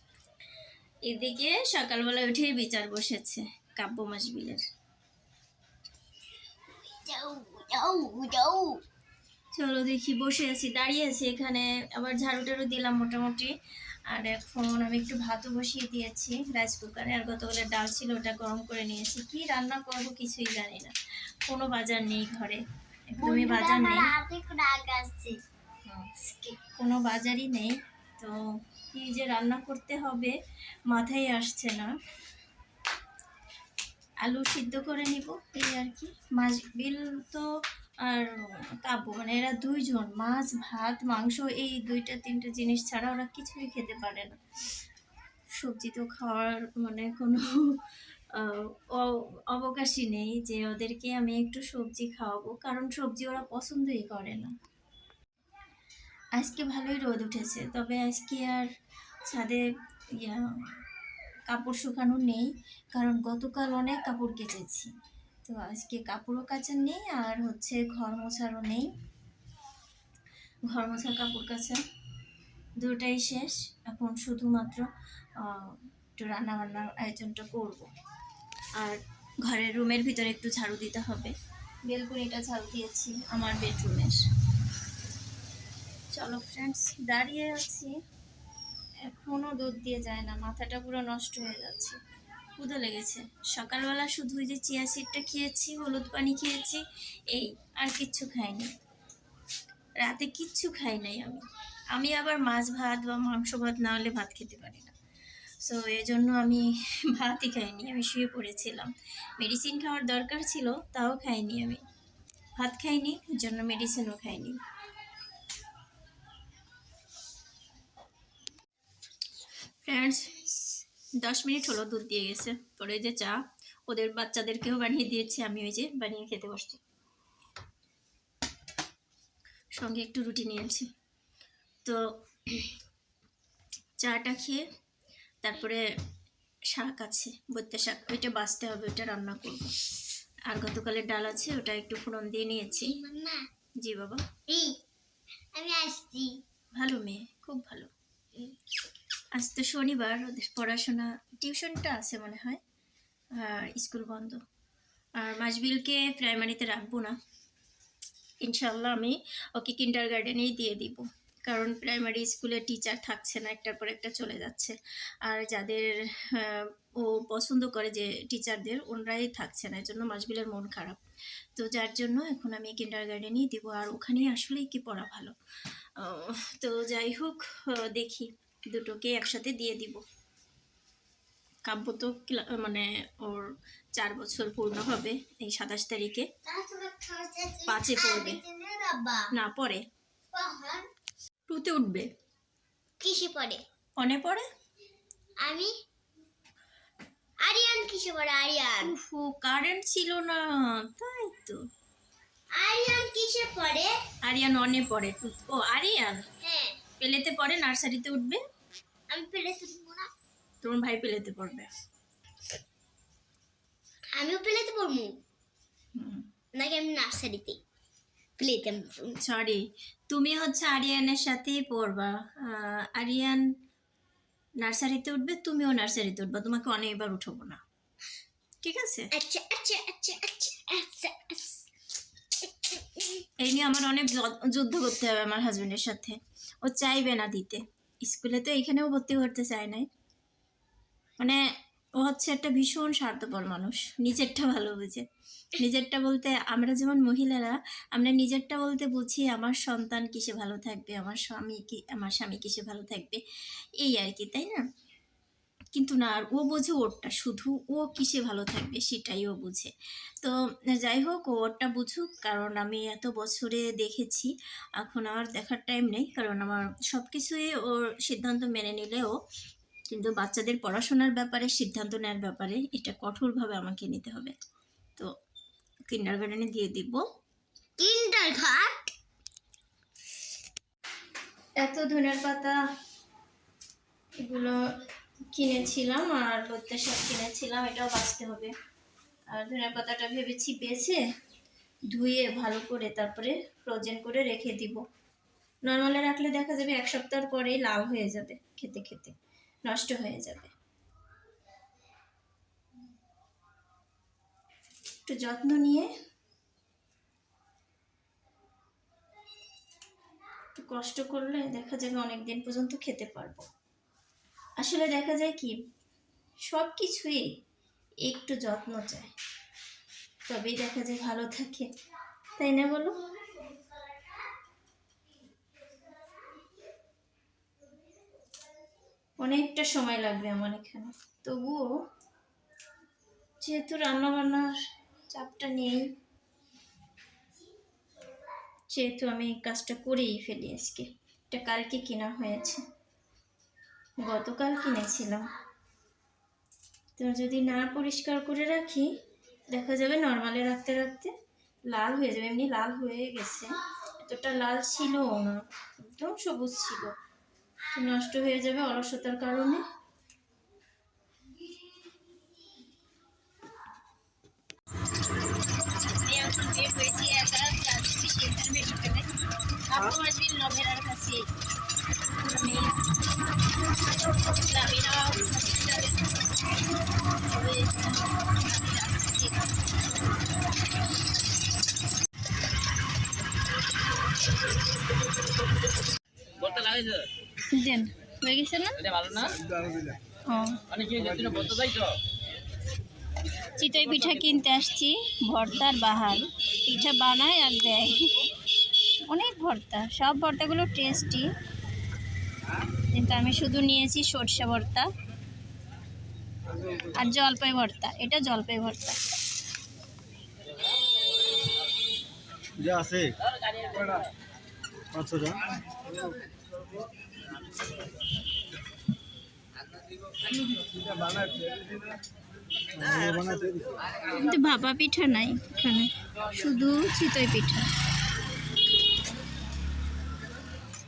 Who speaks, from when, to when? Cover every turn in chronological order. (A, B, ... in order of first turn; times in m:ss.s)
0:01.1-0:04.6 A
0:06.8-0:08.8 B
0:09.5-0:13.5 A
0:14.1-0:20.9 A
0:21.5-0:24.1 A
0:23.3-0:25.4 B
0:25.8-0:30.4 A
0:30.9-0:31.9 A
0:34.2-0:37.5 A
0:38.0-0:44.4 A
0:45.6-0:47.8 A
0:48.3-0:54.5 A
0:56.4-0:58.7 A
0:59.3-0:59.7 A
1:00.2-1:00.8 A
1:01.5-1:04.9 A
1:05.4-1:08.9 A
1:10.7-1:11.8 A
1:12.8-1:14.8 A
1:15.4-1:17.9 A
1:18.8-1:21.3 A
1:21.9-1:24.2 A
1:26.1-1:27.9 A
1:29.0-1:32.0 A
1:32.6-1:38.7 A
1:40.0-1:45.0 A
1:45.6-1:51.8 A
1:52.6-1:54.6 A
1:59.8-2:00.4 A
2:01.2-2:06.8 A
2:09.8-2:10.9 A
2:11.8-2:12.7 A
2:14.0-2:14.6 A
2:15.4-2:15.8 A
2:16.7-2:19.7 A
2:20.5-2:23.0 A
2:22.9-2:23.4 B
2:23.8-2:24.2 A
2:24.5-2:24.8 B
2:25.5-2:26.3 B
2:26.7-2:27.9 A
2:29.3-2:32.6 A
2:33.3-2:34.4 A
2:35.2-2:37.2 A
2:38.4-2:51.0 A
2:51.6-2:55.3 A
2:56.0-3:00.0 A
3:01.7-3:03.4 A
3:04.0-3:06.3 A
3:06.4-3:09.2 B
3:07.7-3:08.4 A
3:09.3-3:09.8 A
3:10.3-3:10.9 B
3:11.5-3:12.1 A
3:13.0-3:13.6 B
3:14.0-3:14.4 A
3:15.4-3:15.7 B
3:17.4-3:18.8 B
3:18.8-3:21.6 A
3:22.5-3:23.9 B
3:24.2-3:26.2 A
3:26.4-3:26.8 B
3:27.0-3:28.4 A
3:29.1-3:30.1 B
3:30.6-3:31.7 A
3:34.1-3:35.2 B
3:36.0-3:36.3 A
3:36.5-3:37.6 B
3:38.4-3:39.1 B
3:39.2-3:43.4 A
3:44.6-3:47.6 A
3:48.6-3:49.1 A
3:49.2-3:51.6 B
3:52.6-3:53.2 B
3:53.4-3:59.9 A
4:02.0-4:05.0 A
4:05.6-4:13.2 A
4:13.8-4:14.6 A
4:15.7-4:29.2 A
4:29.9-4:34.3 A
4:35.9-4:37.0 A
4:37.8-4:38.7 B
4:41.6-4:42.6 A
4:44.2-4:44.6 A
4:45.3-4:48.5 A
4:49.3-4:51.0 A
4:51.9-4:54.8 A
4:55.6-5:00.5 A
5:05.0-5:05.9 A
5:10.5-5:13.4 A
5:14.6-5:15.6 A
5:16.5-5:17.3 A
5:18.1-5:19.1 A
5:20.3-5:21.7 A
5:22.4-5:23.1 A
5:23.1-5:24.3 B
5:25.6-5:26.6 B
5:29.2-5:31.7 A
5:33.4-5:35.9 A
5:38.7-5:42.6 A
5:44.0-5:45.3 A
5:47.0-5:49.0 A
5:49.5-5:51.1 A
5:51.7-5:56.9 A
5:57.7-5:59.6 A
6:05.9-6:09.1 A
6:09.7-6:11.3 A
6:12.2-6:12.9 A
6:14.3-6:16.2 A
6:17.0-6:19.6 A
6:27.5-6:29.3 A
6:29.4-6:29.9 C
6:30.2-6:30.6 A
6:31.0-6:31.6 C
6:33.6-6:38.1 A
6:39.1-6:41.3 A
6:42.9-6:44.9 A
6:46.9-6:49.0 A
6:52.6-6:53.1 C
6:55.0-6:55.4 C
7:01.1-7:01.6 C
7:02.8-7:03.6 C
7:04.1-7:07.7 A